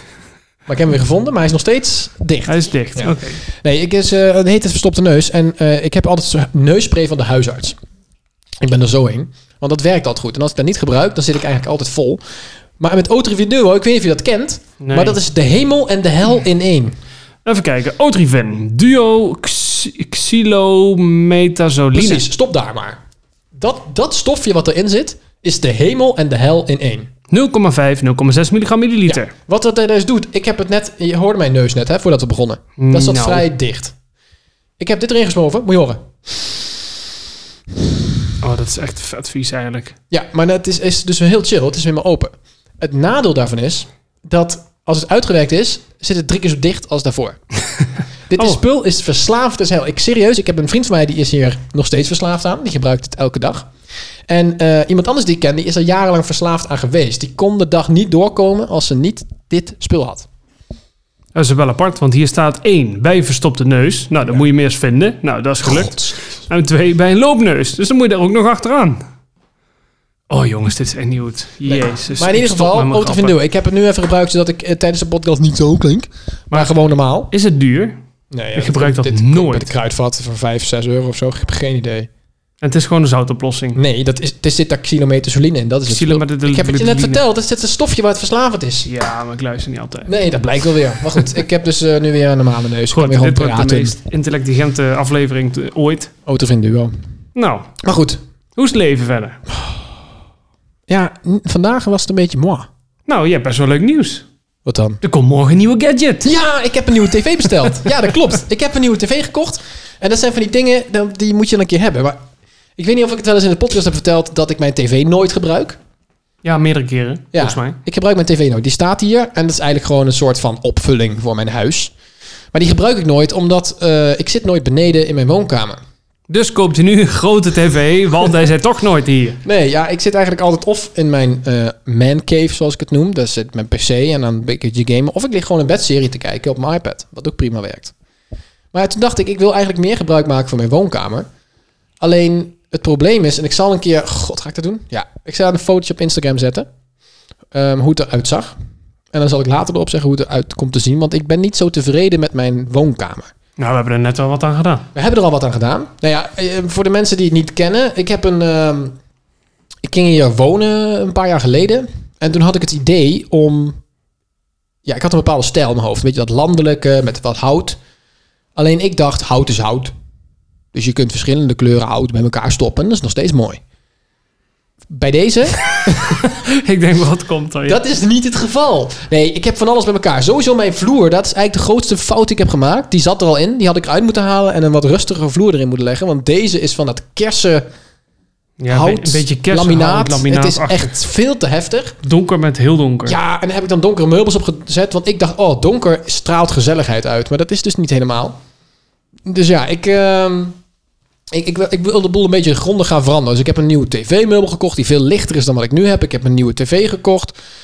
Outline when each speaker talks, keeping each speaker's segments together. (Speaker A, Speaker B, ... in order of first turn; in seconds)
Speaker A: 0.7-7.8, 8.6-12.2, 12.8-16.9, 21.9-23.0, 23.5-27.1, 29.1-33.9, 34.8-36.6, 40.1-47.4, 48.3-53.7, 54.3-60.3, 65.6-66.3, 71.7-77.3, 78.3-82.1, 83.8-88.9, 90.1-93.9, 96.3-96.9, 97.8-98.2, 100.9-102.7, 104.7-105.0, 106.2-112.2, 112.8-115.8, 117.3-121.9, 122.5-125.8, 129.4-137.9, 138.7-141.3, 142.0-146.7, 147.5-148.6, 149.1-153.3, 154.9-159.0, 159.8-163.8, 164.8-167.8, 168.6-169.9, 170.7-173.6, 174.9-175.6, 177.7-187.7, 188.7-192.0, 193.1-198.4, 199.3-200.6, 201.3-207.3
Speaker B: 2.5-3.4, 14.8-15.2, 17.4-22.3, 27.3-29.3, 32.8-33.5, 38.4-40.0, 61.4-69.0, 70.3-73.3, 77.3-78.0, 78.6-79.7, 82.6-83.8, 85.9-87.2, 88.8-90.1, 92.9-96.1, 97.4-97.7, 98.6-99.4, 103.1-104.3, 105.0-106.3, 116.4-117.8, 126.3-129.4, 153.6-154.9, 175.8-177.8, 188.6-190.9, 192.0-193.2